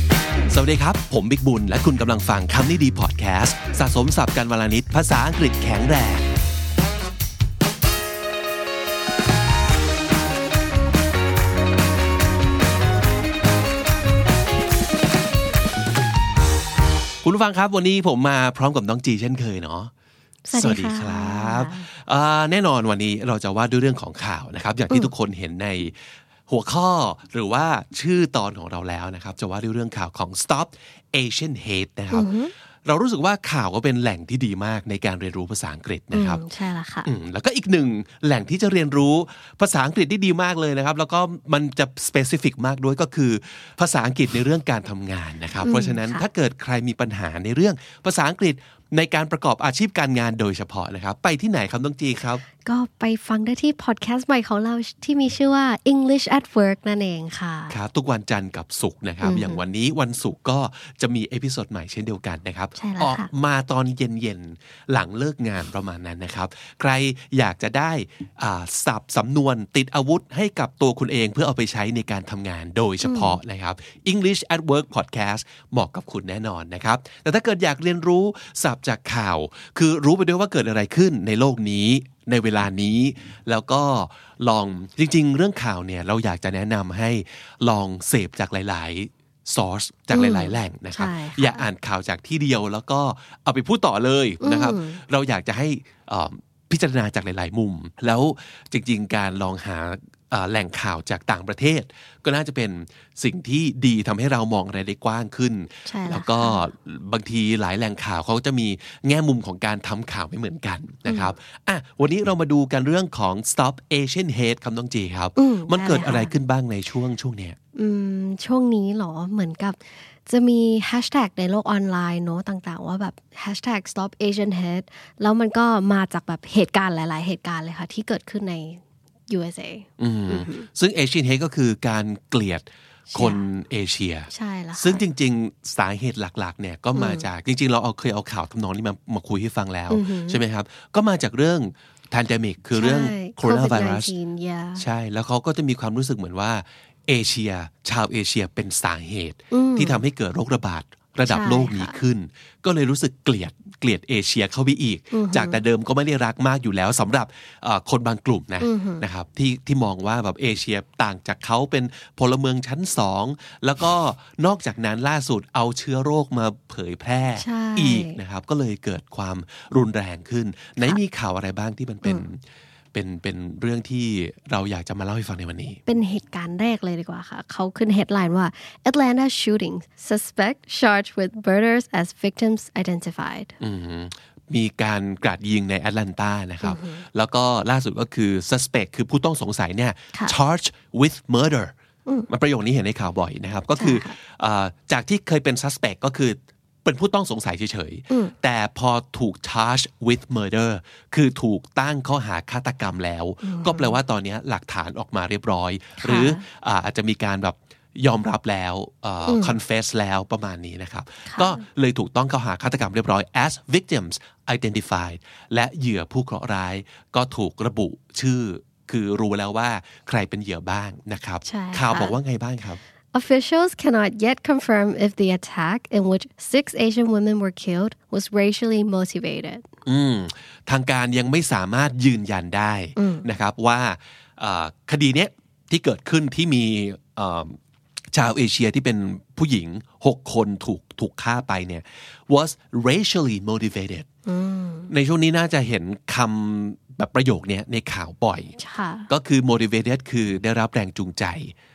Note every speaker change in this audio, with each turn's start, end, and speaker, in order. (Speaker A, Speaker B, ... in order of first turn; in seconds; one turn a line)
Speaker A: 0.5-6.2
Speaker A: 17.2-19.9
Speaker B: 20.5-21.9
Speaker A: 20.6-32.3
Speaker B: 32.1-32.5
Speaker A: 32.9-36.4
Speaker B: 36.1-37.1
Speaker A: 37.0-52.4
Speaker B: 45.6-46.2
Speaker B: 52.6-57.8
Speaker A: 57.7-117.6
Speaker B: 59.2-59.6
Speaker B: 62.8-63.3
Speaker B: 73.0-73.4
Speaker B: 90.1-91.7
Speaker B: 94.4-95.0
Speaker B: 105.9-106.7
Speaker B: 115.4-116.3
Speaker B: 117.8-130.7
Speaker A: 130.0-144.1
Speaker B: 133.1-133.5
Speaker B: 134.3-135.0
Speaker B: 136.9-137.3
Speaker B: 139.9-140.4
Speaker B: 142.8-144.8
Speaker A: 144.8-172.4
Speaker B: 149.5-150.0
Speaker B: 151.3-152.0
Speaker B: 155.1-155.6
Speaker B: 158.6-159.1
Speaker B: 167.4-168.2
Speaker A: 172.9-175.8
Speaker B: 175.9-183.5
Speaker A: 183.6-191.7
Speaker B: 186.6-187.0
Speaker A: 192.3-222.8
Speaker B: 193.8-194.2
Speaker B: 203.4-203.9
Speaker B: 206.0-206.4
Speaker B: 209.3-209.5
Speaker B: 211.3-211.6
Speaker B: 221.4-222.1
Speaker B: 223.1-229.7
Speaker A: 229.9-237.6
Speaker B: 233.0-233.3
Speaker A: 238.1-244.1
Speaker B: 244.3-244.9
Speaker A: 244.9-248.6
Speaker B: 248.6-249.1
Speaker A: 249.1-251.5